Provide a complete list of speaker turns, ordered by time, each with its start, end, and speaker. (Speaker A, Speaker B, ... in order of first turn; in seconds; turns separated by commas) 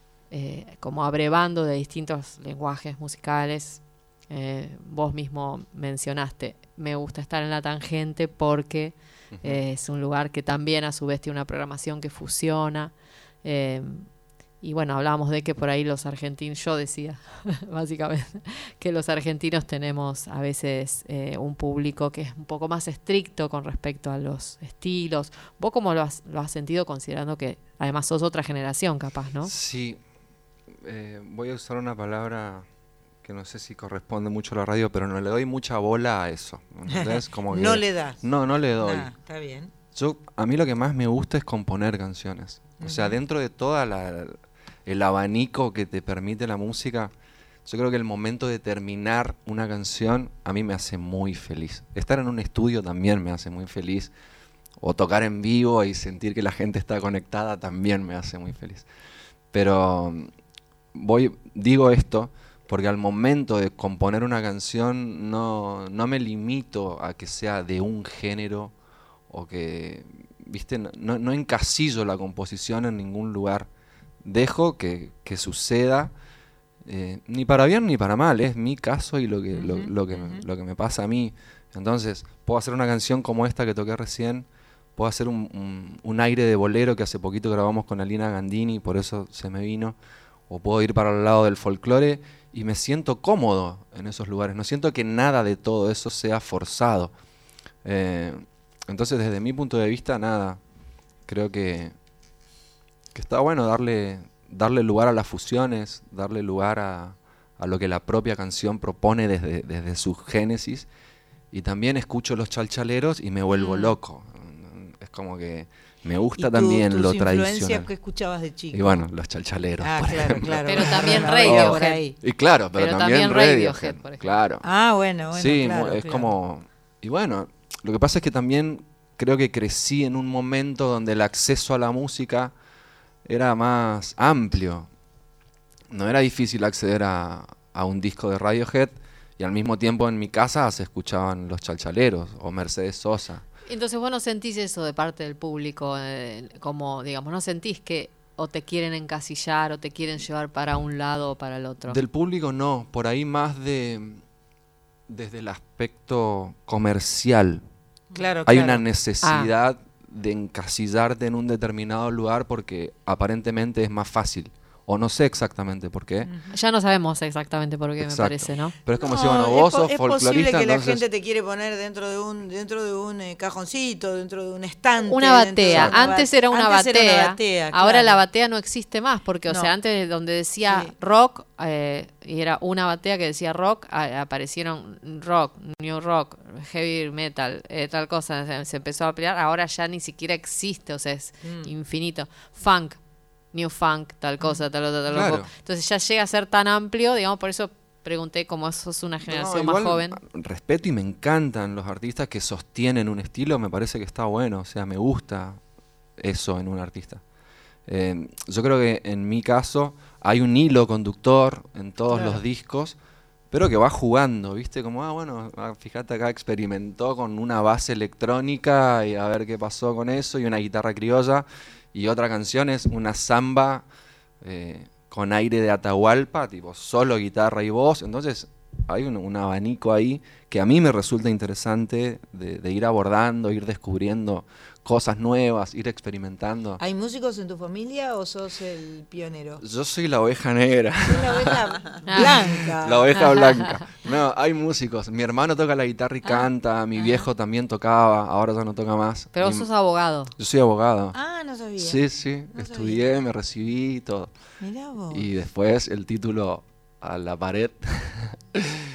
Speaker A: 0.3-29.5, Speaker B: 9.3-9.6, Speaker B: 29.4-30.0, Speaker B: 30.8-32.7, Speaker B: 33.2-39.1, Speaker C: 36.9-38.2, Speaker C: 38.8-39.7, Speaker B: 39.9-47.1, Speaker C: 42.8-43.2, Speaker B: 47.6-54.1, Speaker B: 54.8-58.9, Speaker B: 59.5-60.3, Speaker B: 61.0-68.7, Speaker B: 69.3-73.7, Speaker B: 74.2-76.1, Speaker B: 76.8-90.0, Speaker C: 79.5-80.5, Speaker B: 90.5-97.1, Speaker B: 97.8-100.6, Speaker B: 101.3-101.9, Speaker B: 103.1-110.9, Speaker B: 111.5-117.9, Speaker A: 113.6-114.0, Speaker C: 116.4-119.0, Speaker B: 118.7-124.7, Speaker C: 119.8-122.2, Speaker A: 120.7-122.0, Speaker A: 122.8-124.2, Speaker C: 124.6-126.4, Speaker B: 125.3-132.5, Speaker B: 133.2-134.9, Speaker B: 135.9-143.4, Speaker A: 143.7-152.0, Speaker B: 151.8-154.2, Speaker B: 155.1-157.6, Speaker C: 158.1-158.8, Speaker B: 158.5-166.3, Speaker A: 159.2-159.5, Speaker C: 166.3-166.5, Speaker A: 166.5-168.8, Speaker B: 168.0-171.1, Speaker C: 169.0-178.2, Speaker A: 175.1-193.0, Speaker B: 175.7-176.0, Speaker C: 180.7-180.9, Speaker C: 191.4-191.7, Speaker A: 193.5-200.2, Speaker B: 195.1-195.5, Speaker B: 199.3-205.6, Speaker B: 206.2-207.2, Speaker B: 207.9-213.0, Speaker C: 212.1-212.4, Speaker B: 213.5-223.8, Speaker B: 224.4-236.8, Speaker C: 236.8-239.6, Speaker B: 239.6-241.6, Speaker C: 241.1-243.2, Speaker A: 242.1-242.7, Speaker B: 242.2-249.7, Speaker A: 243.2-243.6, Speaker C: 247.0-247.3, Speaker A: 249.3-250.3, Speaker B: 250.4-251.2, Speaker C: 251.1-253.0, Speaker B: 251.8-254.3, Speaker C: 254.6-255.3, Speaker B: 255.1-258.8